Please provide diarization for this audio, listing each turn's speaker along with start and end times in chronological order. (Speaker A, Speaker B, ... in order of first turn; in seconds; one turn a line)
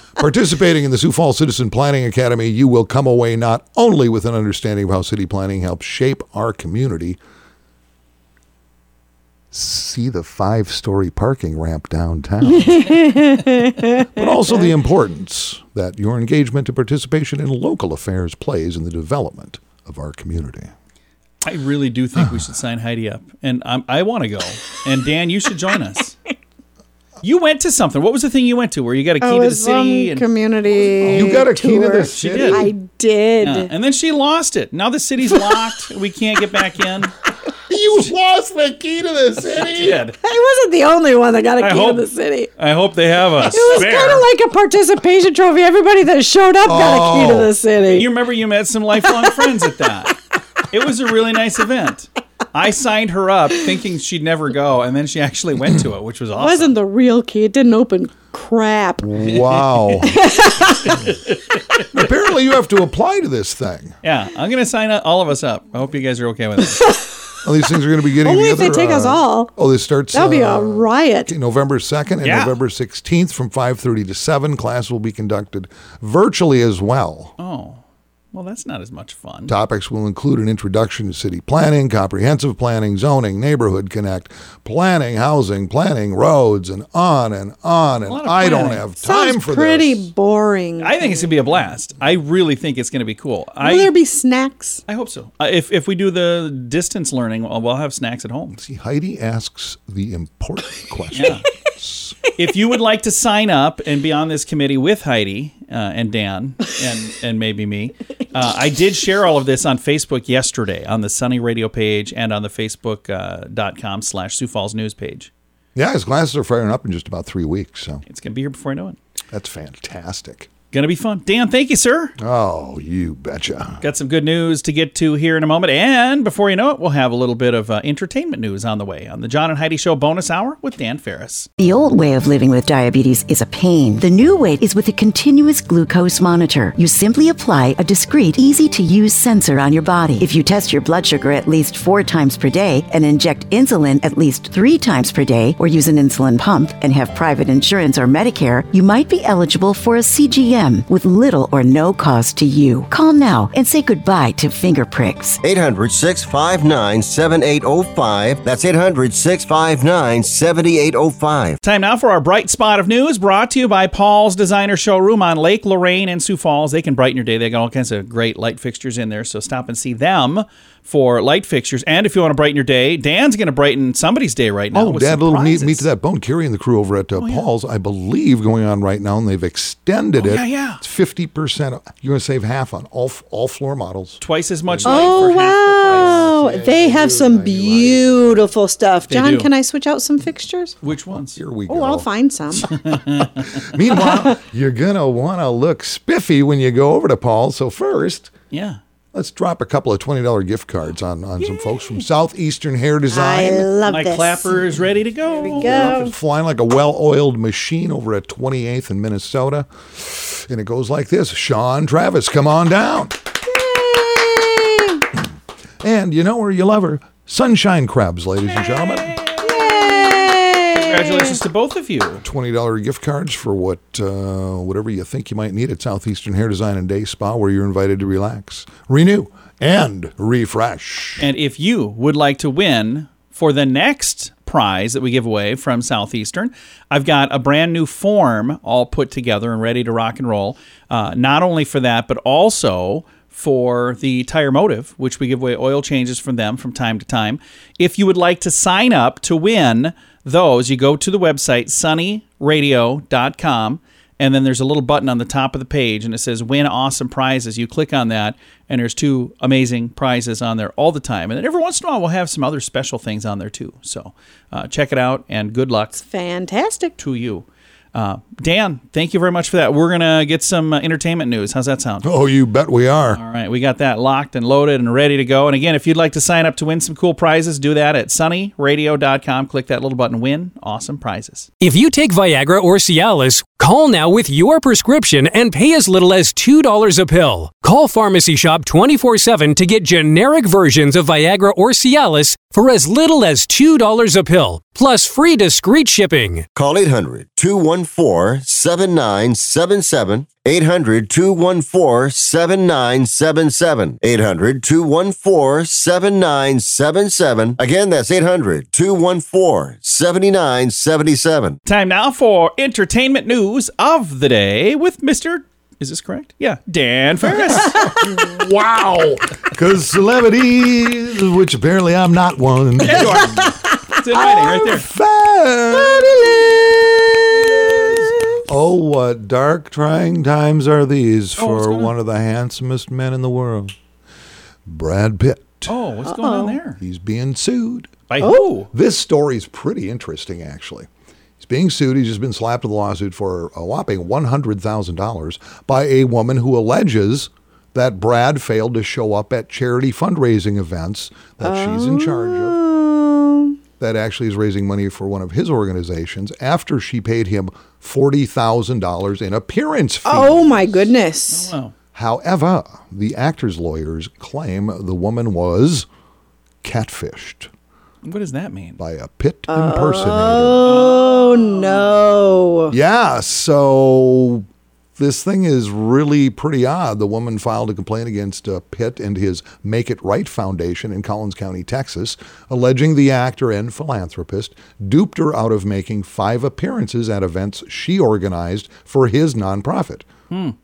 Speaker A: 0.2-7.2
Speaker A: 9.5-13.3
Speaker B: 12.6-14.2
Speaker A: 14.1-20.7
Speaker C: 21.4-26.2
Speaker A: 22.2-22.5
Speaker C: 27.2-30.2
Speaker B: 29.2-33.7
Speaker C: 30.9-31.4
Speaker A: 31.0-32.7
Speaker C: 32.1-32.7
Speaker C: 33.4-37.1
Speaker A: 37.7-40.0
Speaker C: 39.5-40.2
Speaker B: 40.2-42.5
Speaker C: 41.6-44.2
Speaker B: 43.5-48.1
Speaker A: 46.6-47.5
Speaker C: 47.9-50.2
Speaker C: 50.7-56.7
Speaker B: 56.4-59.1
Speaker A: 59.0-60.2
Speaker C: 59.3-60.0
Speaker B: 60.0-61.1
Speaker A: 61.9-64.0
Speaker C: 64.0-66.9
Speaker A: 67.4-77.4
Speaker B: 68.2-69.5
Speaker B: 70.1-71.3
Speaker C: 72.2-72.5
Speaker C: 77.4-77.8
Speaker C: 78.3-79.5
Speaker A: 79.5-90.1
Speaker C: 88.0-88.9
Speaker B: 89.0-91.3
Speaker C: 90.8-93.9
Speaker B: 93.6-94.8
Speaker C: 94.9-98.6
Speaker A: 98.6-102.2
Speaker C: 101.1-101.4
Speaker C: 102.4-115.3
Speaker A: 115.8-118.0
Speaker C: 118.1-119.0
Speaker A: 119.3-120.5
Speaker C: 120.7-122.1
Speaker A: 122.2-123.8
Speaker C: 123.8-131.5
Speaker D: 131.6-155.4
Speaker E: 155.4-161.6
Speaker C: 161.6-175.9
Speaker A: 174.7-188.5
Speaker C: 177.2-177.5
Speaker C: 180.2-180.8
Speaker C: 184.2-186.2
Speaker B: 184.8-190.8
Speaker C: 189.1-189.5
Speaker C: 190.8-191.4
Speaker A: 191.1-192.1
Speaker B: 191.7-192.8
Speaker C: 192.6-193.6
Speaker A: 193.6-198.3
Speaker B: 193.9-194.2
Speaker C: 198.5-198.8
Speaker A: 199.1-203.7
Speaker C: 201.4-201.9
Speaker B: 203.1-204.6
Speaker C: 203.9-205.9
Speaker B: 205.4-206.1
Speaker A: 205.5-213.2
Speaker B: 213.4-215.0
Speaker A: 215.8-219.2
Speaker C: 218.7-222.2
Speaker B: 219.4-221.4
Speaker A: 222.2-231.3
Speaker C: 231.2-266.0
Speaker B: 266.0-267.0
Speaker C: 267.0-272.1
Speaker A: 272.0-273.2
Speaker C: 273.1-281.5
Speaker F: 281.6-296.4
Speaker E: 296.6-311.6
Speaker C: 311.7-317.8
Speaker A: 317.2-323.4
Speaker C: 322.8-324.9
Speaker A: 324.2-333.7
Speaker B: 325.7-328.4
Speaker C: 331.4-331.9
Speaker A: 334.7-335.7
Speaker C: 335.7-336.8
Speaker B: 336.1-336.6
Speaker A: 336.8-338.1
Speaker C: 338.1-338.7
Speaker B: 338.2-338.5
Speaker A: 338.7-340.9
Speaker A: 341.4-352.6
Speaker B: 351.4-353.6
Speaker A: 353.8-360.9
Speaker B: 360.1-361.5
Speaker C: 361.3-361.7
Speaker A: 361.9-365.9
Speaker A: 366.6-367.5
Speaker C: 368.0-368.8
Speaker A: 368.8-370.9
Speaker B: 369.5-372.8
Speaker C: 370.6-372.0
Speaker A: 372.7-374.5
Speaker A: 375.0-390.1
Speaker C: 390.3-390.6